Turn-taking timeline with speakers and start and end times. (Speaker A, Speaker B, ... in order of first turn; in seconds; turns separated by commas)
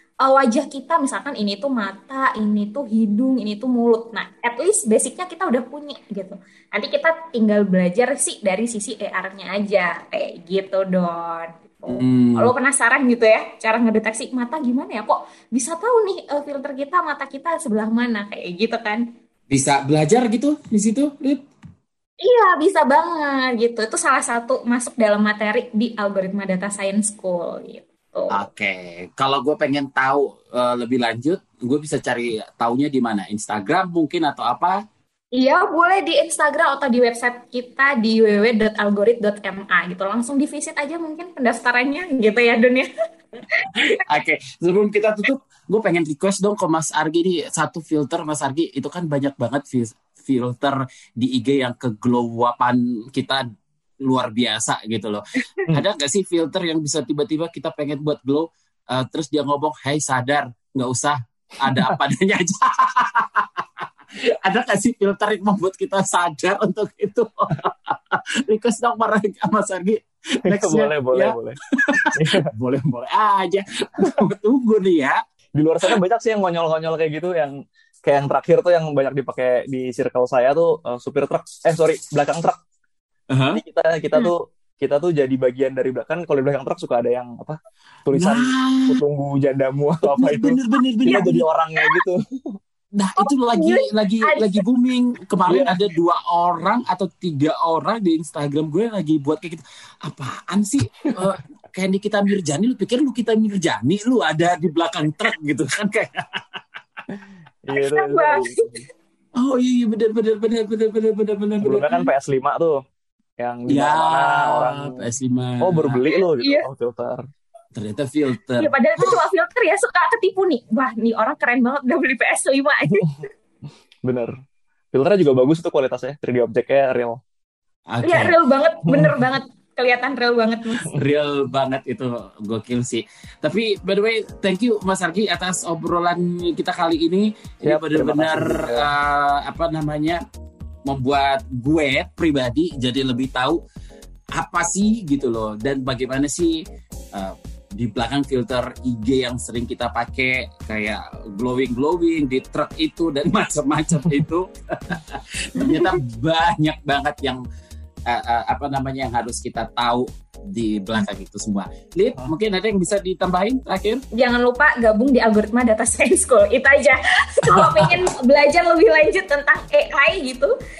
Speaker A: 0.2-19.0, Speaker B: 11.9-12.5, Speaker B: 19.5-21.4, Speaker A: 22.2-28.4, Speaker B: 28.3-34.8, Speaker A: 35.4-42.9, Speaker B: 43.8-53.5, Speaker B: 54.0-63.6, Speaker C: 61.7-62.0, Speaker B: 64.3-75.2, Speaker C: 70.4-71.6, Speaker C: 72.1-72.5, Speaker C: 75.5-82.5, Speaker B: 83.3-83.6, Speaker C: 83.5-92.6, Speaker B: 88.1-89.0, Speaker B: 90.0-91.2, Speaker A: 91.1-92.0, Speaker B: 93.0-106.4, Speaker A: 93.2-94.6, Speaker C: 95.5-95.7, Speaker C: 107.6-108.8, Speaker A: 107.7-108.8, Speaker B: 109.4-111.9, Speaker C: 111.6-112.8, Speaker C: 113.4-115.0, Speaker B: 113.7-116.0, Speaker C: 115.6-117.2, Speaker A: 116.1-116.7, Speaker B: 117.7-119.2, Speaker A: 118.6-123.2, Speaker C: 122.9-123.2, Speaker C: 124.0-124.3, Speaker C: 124.9-127.2, Speaker B: 127.9-128.3, Speaker A: 128.0-130.9, Speaker C: 128.9-129.2, Speaker B: 130.9-140.2, Speaker C: 137.6-138.9, Speaker B: 140.8-143.6, Speaker B: 144.3-146.6, Speaker B: 147.1-157.4, Speaker A: 155.6-155.9, Speaker B: 158.1-164.0, Speaker A: 164.1-170.5, Speaker B: 167.5-168.1